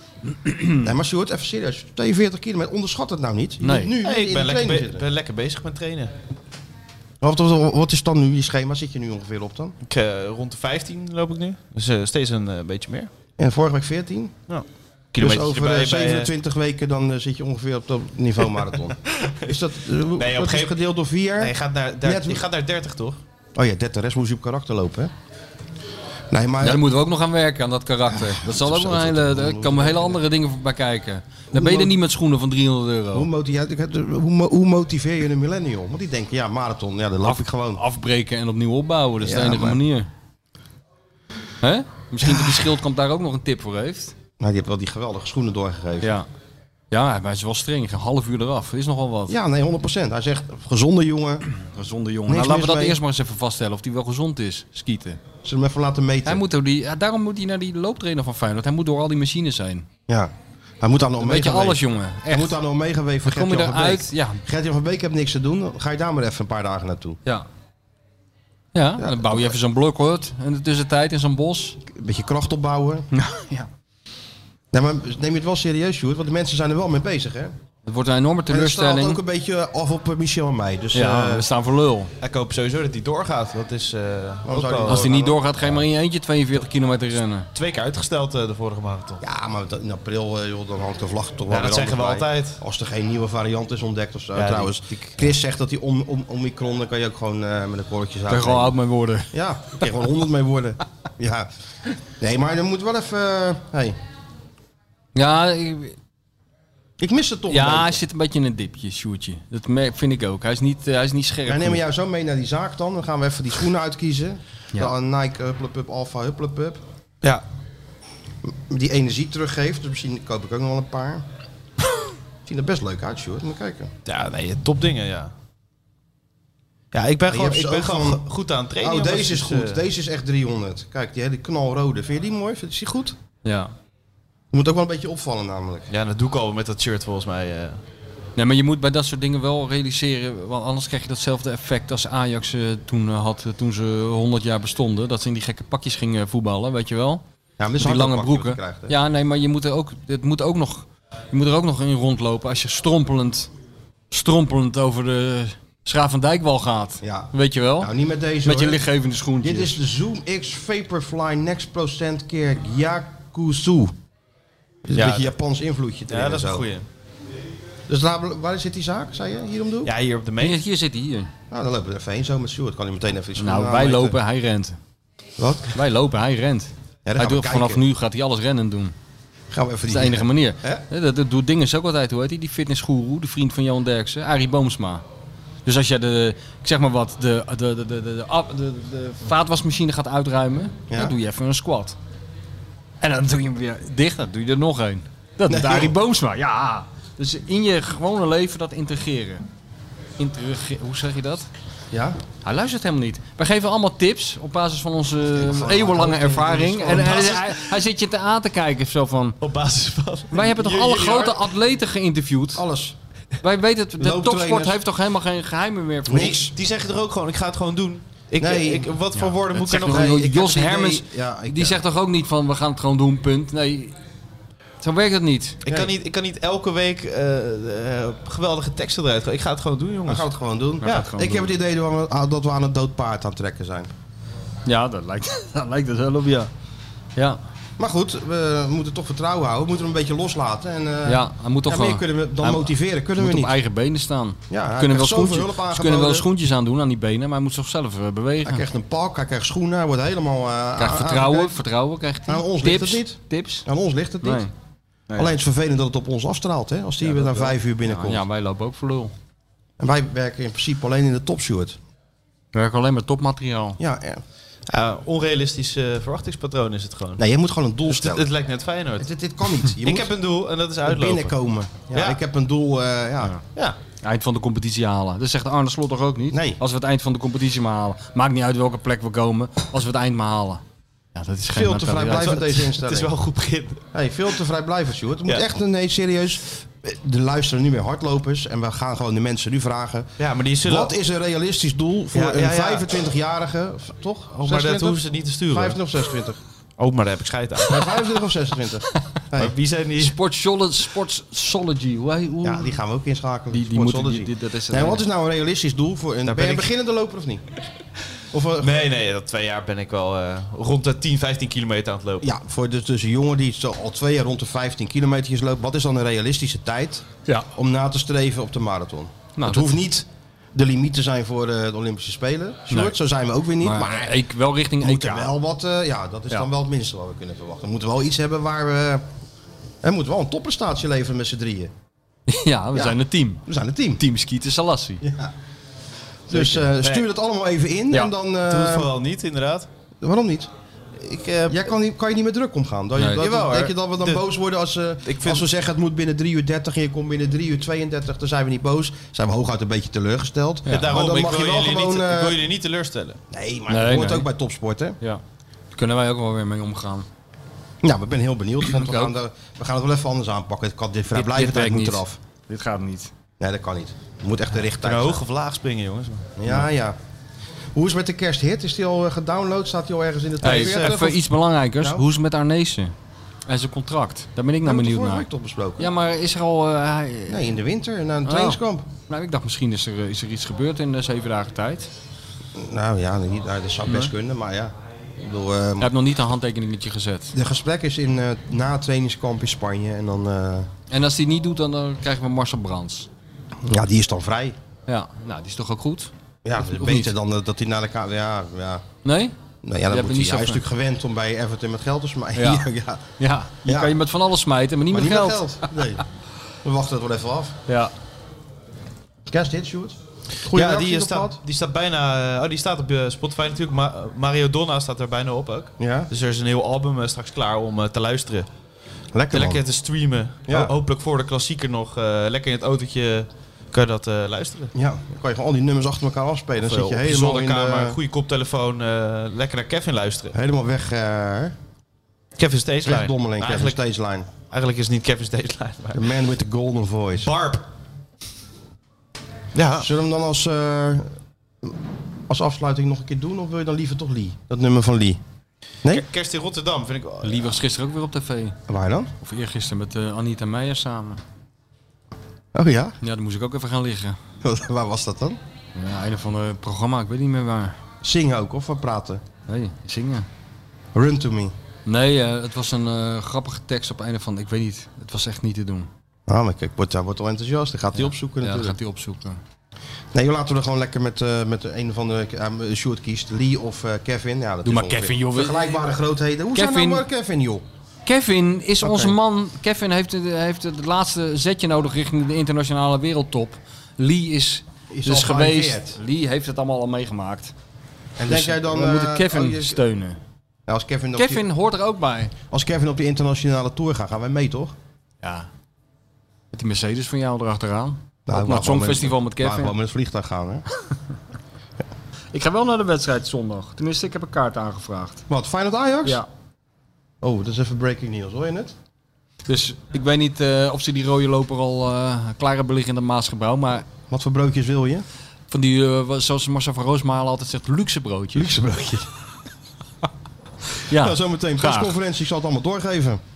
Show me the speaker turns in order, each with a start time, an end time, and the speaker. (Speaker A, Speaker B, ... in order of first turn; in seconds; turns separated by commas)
Speaker A: 0.3-0.9, Speaker B: 0.8-5.0, Speaker A: 3.6-3.9, Speaker C: 4.0-6.1, Speaker B: 7.2-9.7, Speaker C: 9.8-13.1, Speaker B: 13.4-14.3, Speaker C: 14.5-16.3, Speaker B: 15.2-22.4, Speaker C: 20.2-20.8, Speaker C: 21.4-23.2, Speaker B: 23.5-25.1, Speaker B: 26.3-26.8, Speaker A: 26.6-33.3, Speaker B: 28.1-30.2, Speaker B: 31.5-31.9, Speaker B: 33.1-37.8, Speaker A: 37.2-40.1, Speaker B: 39.2-39.8, Speaker A: 41.6-44.1, Speaker B: 42.2-42.7, Speaker B: 44.4-46.2, Speaker A: 46.0-46.3, Speaker A: 46.9-49.4, Speaker B: 49.3-51.5, Speaker A: 51.5-55.2, Speaker B: 52.3-53.0, Speaker B: 55.4-56.4, Speaker A: 56.2-59.9, Speaker B: 60.1-67.2, Speaker A: 61.2-62.6, Speaker A: 63.2-64.4, Speaker A: 68.7-71.8, Speaker B: 69.0-69.6, Speaker B: 71.8-73.1, Speaker A: 73.1-73.7, Speaker B: 74.7-77.5, Speaker A: 77.8-79.2, Speaker B: 78.5-81.5, Speaker A: 80.9-82.1, Speaker C: 82.2-85.1, Speaker B: 84.5-85.5, Speaker A: 84.9-87.5, Speaker C: 87.5-89.2, Speaker B: 89.2-98.8, Speaker C: 91.5-92.6, Speaker C: 94.3-95.3, Speaker A: 98.3-99.9, Speaker B: 99.3-101.5, Speaker B: 102.2-104.0, Speaker A: 105.1-106.0, Speaker B: 107.0-108.0, Speaker A: 107.5-111.8, Speaker B: 111.5-116.8, Speaker B: 118.4-121.2, Speaker B: 122.5-123.9, Speaker C: 124.0-125.3, Speaker C: 126.9-129.8, Speaker B: 127.3-128.2, Speaker B: 128.8-133.2, Speaker A: 133.4-133.7, Speaker B: 134.5-135.9, Speaker C: 135.9-137.8, Speaker A: 138.3-147.2, Speaker B: 147.6-148.9, Speaker A: 147.8-153.5, Speaker A: 154.1-157.9, Speaker B: 157.0-158.8, Speaker A: 158.4-159.7, Speaker B: 159.4-163.9, Speaker B: 164.8-166.7, Speaker C: 164.9-165.3, Speaker C: 166.1-166.9, Speaker B: 167.9-169.9, Speaker C: 169.8-170.6, Speaker A: 170.4-171.3, Speaker B: 171.5-174.2, Speaker A: 173.4-174.8, Speaker B: 175.4-175.8, Speaker A: 175.7-178.9, Speaker B: 177.1-177.8, Speaker B: 179.5-180.8, Speaker A: 179.9-185.0, Speaker A: 185.6-191.9, Speaker B: 190.9-191.2, Speaker A: 193.0-199.4, Speaker B: 195.5-195.9, Speaker A: 200.2-201.5, Speaker B: 201.9-202.2, Speaker A: 202.4-209.4, Speaker B: 205.3-207.6, Speaker C: 209.4-211.4, Speaker A: 210.3-212.6, Speaker B: 212.5-212.9, Speaker A: 213.4-216.4, Speaker B: 214.0-214.8, Speaker B: 216.1-216.5, Speaker C: 216.1-220.2, Speaker B: 218.4-218.9, Speaker A: 219.2-223.9, Speaker B: 219.6-221.8, Speaker A: 224.8-225.6, Speaker C: 225.6-230.3, Speaker B: 225.7-225.9, Speaker B: 230.1-233.9, Speaker A: 230.8-231.5, Speaker A: 234.7-236.5, Speaker B: 237.8-243.6, Speaker A: 241.1-248.7, Speaker B: 244.5-246.3, Speaker B: 248.4-251.6, Speaker A: 250.8-253.7, Speaker B: 252.3-254.4, Speaker A: 254.2-254.5, Speaker B: 255.1-258.2, Speaker A: 257.0-259.1, Speaker B: 259.8-261.8, Speaker A: 262.5-263.8, Speaker B: 263.8-264.2, Speaker C: 264.7-267.2, Speaker B: 267.2-268.3, Speaker C: 267.9-269.1, Speaker B: 269.0-270.1, Speaker C: 269.7-271.4, Speaker B: 270.8-273.4, Speaker C: 271.9-272.2, Speaker A: 274.0-280.6, Speaker B: 276.3-276.6, Speaker A: 281.1-282.6, Speaker B: 281.5-283.1, Speaker C: 282.1-283.8, Speaker B: 283.9-290.1, Speaker C: 290.2-290.9, Speaker B: 290.6-296.4, Speaker C: 292.1-293.0, Speaker C: 294.4-295.8, Speaker C: 296.8-297.9, Speaker B: 297.7-299.5, Speaker C: 299.3-300.2, Speaker A: 300.0-302.8, Speaker B: 302.4-307.5, Speaker A: 303.5-305.0, Speaker C: 306.2-306.7, Speaker B: 308.3-308.9, Speaker C: 308.6-312.2, Speaker B: 312.2-324.2, Speaker A: 319.4-319.8, Speaker A: 322.7-322.9, Speaker A: 323.6-325.3, Speaker B: 324.8-329.0, Speaker B: 329.8-331.7, Speaker A: 332.3-333.4, Speaker B: 332.7-334.0, Speaker A: 333.9-335.0, Speaker B: 335.0-335.3, Speaker B: 336.3-338.9, Speaker C: 336.3-337.1, Speaker C: 338.5-339.7, Speaker B: 340.0-340.5, Speaker C: 341.0-341.6, Speaker B: 341.5-352.4, Speaker A: 342.9-343.2, Speaker C: 343.2-344.2, Speaker C: 345.0-345.4, Speaker C: 350.7-353.2, Speaker B: 353.3-355.0, Speaker A: 353.7-354.3, Speaker A: 355.0-357.1, Speaker B: 357.8-362.2, Speaker A: 358.7-359.1, Speaker A: 361.1-363.1, Speaker B: 363.4-365.2, Speaker C: 364.7-366.6, Speaker B: 366.4-367.0, Speaker B: 367.7-371.2, Speaker C: 370.4-371.0, Speaker A: 370.4-372.9, Speaker B: 371.8-372.0, Speaker A: 373.5-375.3, Speaker B: 374.6-375.9, Speaker A: 375.8-377.5, Speaker B: 377.3-378.9, Speaker A: 378.2-381.9, Speaker B: 382.6-385.9, Speaker A: 383.9-384.1, Speaker A: 385.8-387.3, Speaker B: 387.3-390.7, Speaker A: 390.9-393.1, Speaker B: 393.6-394.6, Speaker A: 394.9-397.1, Speaker B: 396.4-398.8, Speaker A: 399.0-399.3, Speaker B: 399.6-403.1, Speaker A: 399.9-400.6, Speaker A: 402.4-402.6, Speaker A: 403.2-405.8, Speaker B: 403.6-403.9, Speaker B: 404.9-406.0, Speaker B: 406.6-407.6, Speaker A: 407.7-407.9, Speaker B: 409.3-411.4, Speaker C: 410.4-418.5, Speaker B: 415.8-416.1, Speaker B: 419.1-419.6, Speaker C: 419.3-424.7, Speaker B: 420.5-420.7, Speaker B: 424.7-428.0, Speaker C: 426.6-430.3, Speaker B: 430.3-431.6, Speaker C: 432.4-433.8, Speaker B: 432.8-434.3, Speaker C: 434.5-436.1, Speaker B: 435.9-437.3, Speaker C: 437.2-437.6, Speaker C: 439.5-439.9, Speaker B: 439.8-441.1, Speaker B: 442.3-445.2, Speaker C: 445.9-447.6, Speaker A: 447.2-448.6, Speaker B: 448.7-449.1, Speaker A: 449.2-451.2, Speaker B: 452.5-453.0, Speaker A: 453.0-454.2, Speaker B: 454.4-455.4, Speaker A: 455.8-457.8, Speaker B: 458.0-459.2, Speaker A: 459.5-460.3, Speaker B: 460.9-461.5, Speaker A: 461.9-465.9, Speaker B: 466.3-468.8, Speaker A: 467.9-469.4, Speaker B: 470.1-477.6, Speaker A: 474.6-475.8, Speaker A: 476.5-477.1, Speaker A: 478.1-487.5, Speaker B: 478.8-479.1, Speaker B: 484.9-486.0, Speaker B: 488.2-489.8, Speaker A: 488.3-490.2, Speaker B: 490.7-491.4, Speaker A: 491.1-492.3, Speaker B: 492.5-494.7, Speaker A: 495.2-495.5, Speaker A: 496.5-499.7, Speaker B: 498.3-500.6, Speaker A: 502.3-505.2, Speaker B: 505.3-506.2, Speaker B: 507.2-508.7, Speaker A: 509.5-513.9, Speaker B: 514.1-515.0, Speaker A: 515.5-518.6, Speaker B: 518.3-519.1, Speaker A: 520.8-522.0, Speaker B: 520.9-523.2